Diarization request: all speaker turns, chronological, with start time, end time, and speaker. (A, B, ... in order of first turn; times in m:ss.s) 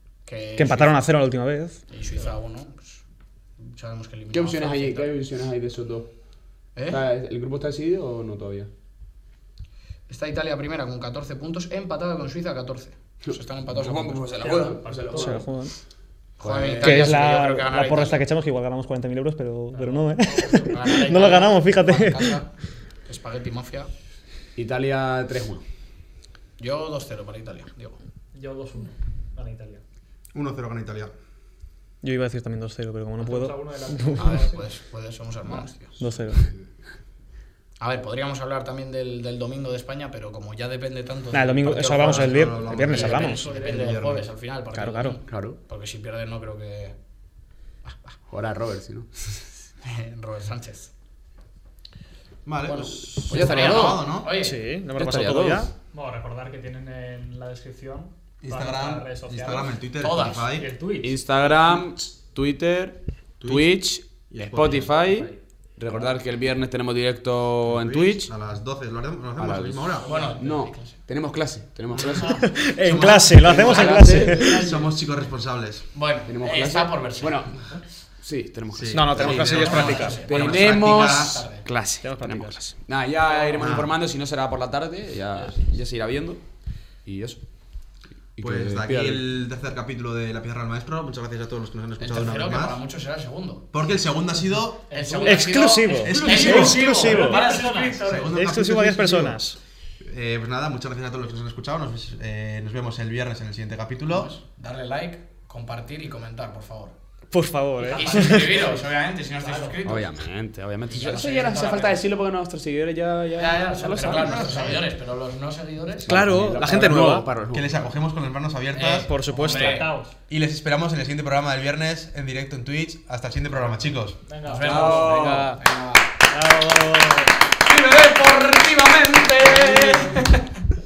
0:00.2-0:01.0 A
0:00.6-0:01.8 B
0:01.9-0:03.0 A
0:03.6-0:05.1 A
0:04.3-0:06.1 C
0:06.7-0:07.0 A
0:06.9-0:08.7 C
0:10.1-0:14.3 A
0:13.3-0:15.5 C
0:14.4-0:15.5 D
0:15.1-0:15.7 B
0:16.4-0:18.2 A
0:16.4-0:17.2 C
0:16.8-0:22.4 B
0:19.7-0:20.7 D
0:20.5-0:22.5 A
0:23.0-0:23.9 A
0:24.6-0:25.6 C
0:26.6-0:28.0 A
0:28.3-0:29.8 D
0:30.3-0:31.1 E
0:32.0-0:34.4 B
0:33.2-0:34.7 D
0:34.2-0:36.0 A
0:36.0-0:36.4 B
0:37.8-0:47.0 A
0:41.3-0:43.6 B
0:42.0-0:44.3 E
0:43.4-0:44.0 D
0:44.7-0:45.2 B
0:45.3-0:45.6 C
0:47.8-0:48.2 A
0:48.3-0:49.5 C
0:49.8-0:50.9 A
0:52.4-0:54.4 E
0:52.6-0:54.6 A
0:53.3-0:54.0 C
0:54.3-0:55.7 B
0:55.0-0:55.6 C
0:55.9-0:59.8 D
0:58.4-1:00.7 E
1:00.0-1:00.5 A
1:00.5-1:01.2 D
1:01.0-1:08.3 C
1:03.4-1:05.0 E
1:07.6-1:10.2 E
1:09.4-1:12.6 C
1:10.0-1:11.0 A
1:10.1-1:10.4 D
1:12.1-1:12.4 D
1:12.2-1:14.6 B
1:12.8-1:15.9 E
1:13.5-1:14.5 C
1:13.6-1:14.9 D
1:15.9-1:17.6 A
1:16.3-1:26.4 C
1:18.7-1:21.4 E
1:18.9-1:20.3 B
1:19.2-1:21.7 A
1:19.7-1:20.2 D
1:22.0-1:22.7 B
1:23.5-1:23.9 E
1:27.0-1:27.4 C
1:28.4-1:29.2 C
1:28.4-1:32.8 E
1:32.0-1:33.8 A
1:33.7-1:34.9 E
1:34.9-1:35.5 D
1:34.9-1:38.2 A
1:35.2-1:37.6 B
1:36.0-1:36.9 E
1:36.1-1:38.2 D
1:38.0-1:39.4 E
1:38.3-1:39.6 B
1:40.0-1:44.3 E
1:44.1-1:47.0 A
1:47.3-1:48.6 B
1:47.8-1:48.9 D
1:47.9-1:50.1 A
1:49.4-1:49.8 D
1:49.8-1:54.8 C
1:50.9-1:52.0 A
1:53.3-1:56.6 A
1:54.0-1:54.8 E
1:56.1-1:57.3 B
1:56.1-1:57.8 C
1:57.4-1:59.1 E
1:58.7-1:59.9 A
1:59.0-2:00.0 B
1:59.3-2:00.2 D
2:00.3-2:04.2 E
2:03.6-2:05.4 D
2:04.4-2:06.2 A
2:04.6-2:05.6 C
2:06.2-2:07.4 B
2:07.5-2:10.6 A
2:09.7-2:10.3 D